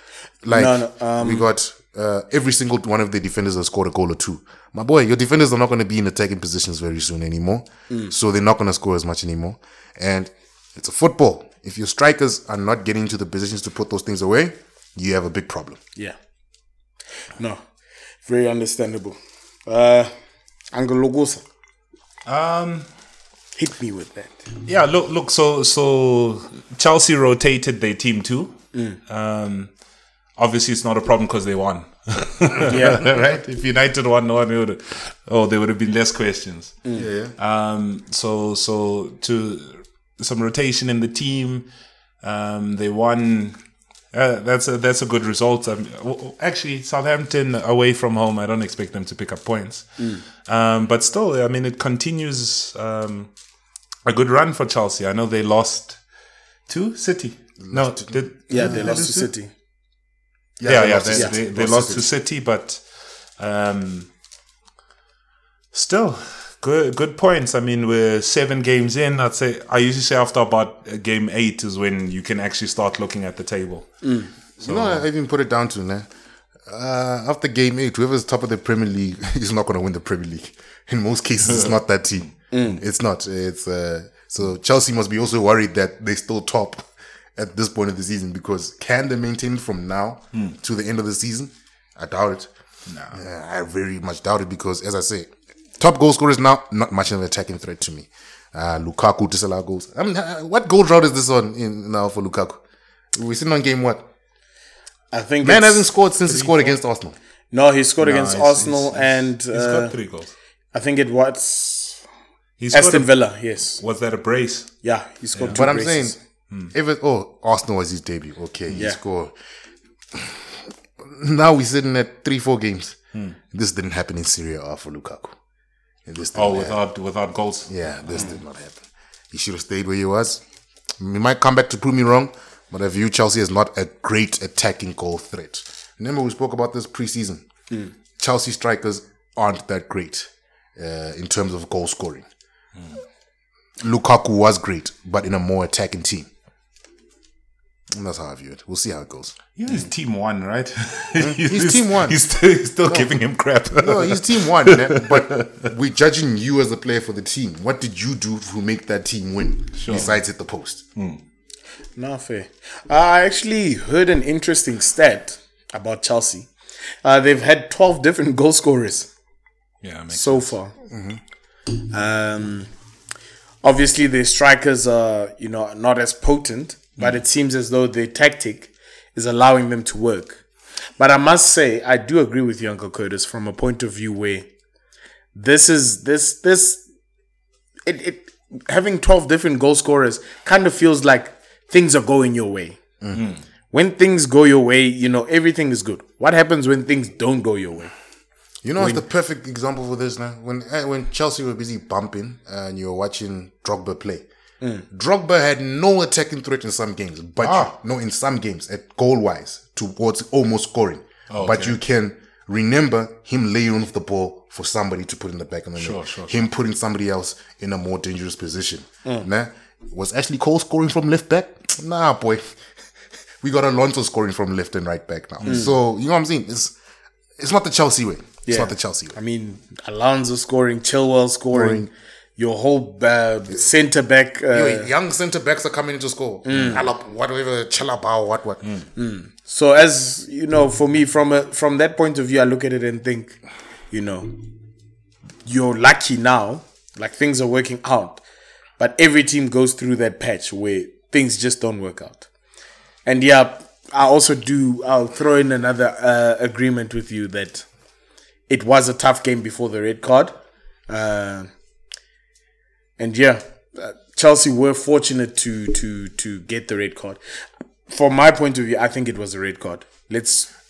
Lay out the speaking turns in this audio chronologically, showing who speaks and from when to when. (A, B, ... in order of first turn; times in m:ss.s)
0:00.4-0:15.8 A
0:00.5-0:01.5 B
0:18.2-0:20.1 B
0:20.7-0:21.4 B
0:22.2-0:22.9 C
0:23.6-0:24.4 B
0:24.6-0:29.7 C
0:30.4-0:41.7 C
0:32.7-0:33.1 B
0:36.9-0:37.3 A
0:42.2-0:43.6 C
0:44.1-0:53.3 C
0:54.0-0:56.0 C
0:56.7-0:59.1 C
0:57.6-0:59.3 A
0:58.5-0:59.5 B
1:00.6-1:02.1 A
1:00.6-1:02.8 C
1:03.4-1:04.1 C
1:05.7-1:14.0 C
1:14.0-1:14.3 B
1:14.6-1:16.1 A
1:14.6-1:15.0 C
1:16.6-1:32.5 A
1:22.5-1:22.8 B
1:32.9-1:33.2 C
1:33.1-1:42.6 A
1:43.1-1:44.0 A
1:45.1-1:45.9 B
1:45.4-1:47.1 A
1:46.2-1:46.7 C
1:47.5-1:49.9 B
1:48.0-1:50.3 C
1:50.7-1:52.0 B
1:52.6-1:53.2 C
1:52.7-1:53.8 B
1:53.8-1:54.7 C
1:54.8-1:56.1 B
1:55.3-1:55.6 C
1:55.5-1:56.2 A
1:56.7-1:59.3 A
2:00.1-2:03.0 A
2:03.5-2:05.3 A
2:06.0-2:06.8 A
2:06.3-2:08.2 C
2:07.7-2:10.4 A
2:11.0-2:17.4 A
2:18.2-2:22.2 A
2:23.8-2:26.3 A
2:27.9-2:29.4 A
2:29.6-2:35.7 C
2:31.2-2:32.2 A
2:32.8-2:33.2 A
2:33.7-2:40.8 A
2:39.8-2:40.1 C
2:42.0-2:46.5 B
2:47.0-2:49.1 B
2:49.8-2:50.5 C
2:50.1-2:50.7 B
2:50.9-2:51.2 A
2:51.8-2:52.7 B
2:53.6-3:00.4 B
3:01.0-3:04.5 B
3:05.3-3:06.8 B
3:07.8-3:12.8 B
3:13.0-3:13.3 A
3:13.1-3:13.4 C
3:13.7-3:17.9 B
3:18.6-3:24.2 A
3:18.8-3:19.0 B
3:24.9-3:42.6 A
3:27.4-3:27.7 C
3:31.3-3:31.8 C
3:35.8-3:36.4 C
3:43.4-3:46.7 A
3:45.4-3:45.7 C
3:45.4-3:45.7 B
3:47.4-3:49.2 A
3:48.4-3:54.9 B
3:51.5-3:51.9 A
3:54.5-3:58.6 A
3:56.4-3:56.8 B
3:59.0-4:03.4 B
4:03.9-4:04.4 B
4:05.4-4:08.2 B
4:08.8-4:12.3 B
4:13.0-4:17.6 B
4:18.5-4:20.4 B
4:20.9-4:21.5 B
4:23.0-4:30.5 B